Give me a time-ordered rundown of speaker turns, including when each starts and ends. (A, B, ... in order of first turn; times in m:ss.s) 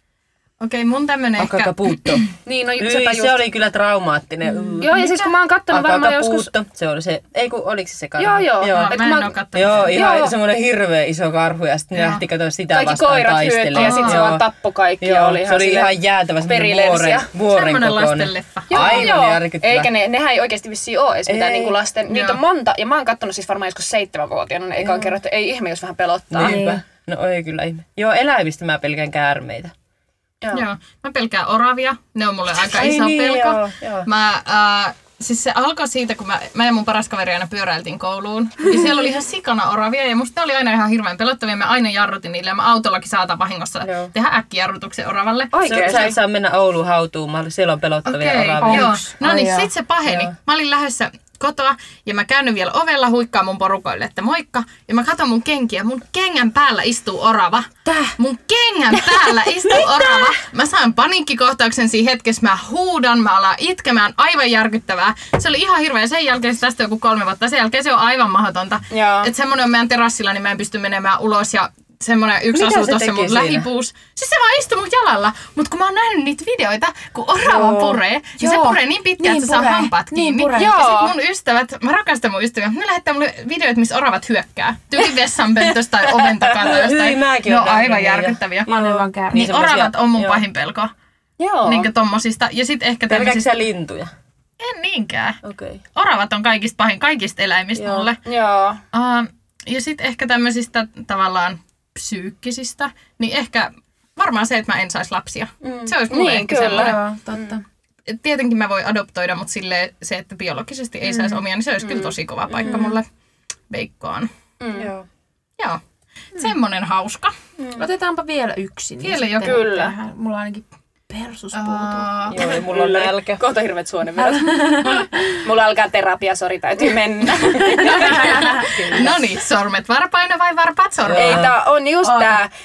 0:00.6-0:02.3 A
0:01.4-0:02.2 B
0:02.4-0:03.4 C
0:02.8-0:04.9 B
0:04.8-0:06.5 C
0:04.9-0:05.3 A
0:05.7-0:14.4 B
0:08.2-0:10.3 C
0:08.7-0:10.2 A
0:11.9-0:12.2 A
0:12.7-0:15.9 C
0:13.8-0:14.2 A
0:15.0-0:19.9 B
0:16.4-0:17.3 C
0:17.5-0:19.2 A
0:18.7-0:26.7 C
0:21.3-0:21.8 B
0:22.1-0:22.4 A
0:24.8-0:25.2 B
0:26.3-0:29.7 B
0:26.4-0:26.8 D
0:30.5-0:46.1 A
0:32.6-0:34.1 B
0:43.8-0:44.1 B
0:45.5-0:46.1 C
0:45.6-0:49.0 B
0:48.0-1:28.7 A
0:48.6-0:49.7 D
0:50.0-0:50.3 B
0:57.8-0:58.1 D
1:08.9-1:09.3 C
1:12.5-1:13.7 B
1:17.4-1:18.0 B
1:18.4-1:20.8 D
1:20.5-1:21.1 C
1:26.0-1:30.4 B
1:28.7-1:29.8 D
1:29.3-1:30.9 A
1:31.4-1:31.9 C
1:31.6-1:33.5 A
1:33.1-1:34.1 B
1:34.6-1:35.4 A
1:35.4-1:35.8 B
1:35.9-1:38.2 A
1:37.7-1:38.1 B
1:38.2-1:38.8 C
1:38.9-1:47.0 A
1:45.6-1:47.6 C
1:46.5-1:47.6 D
1:48.1-1:53.0 A
1:51.0-1:51.4 D
1:51.8-1:52.8 C
1:52.6-1:53.0 D
1:53.7-1:54.3 A
1:54.6-1:54.9 C
1:54.7-1:55.1 B
1:56.3-1:57.3 A
1:57.6-1:57.8 B
1:57.8-2:02.5 D
1:59.0-1:59.6 A
1:59.4-1:59.9 C
2:01.5-2:02.4 A
2:02.3-2:03.4 B
2:02.6-2:08.4 C
2:04.2-2:05.4 D
2:07.4-2:09.0 D
2:07.6-2:11.4 A
2:08.6-2:09.2 B
2:11.0-2:11.6 B
2:11.1-2:12.5 C
2:12.0-2:12.4 D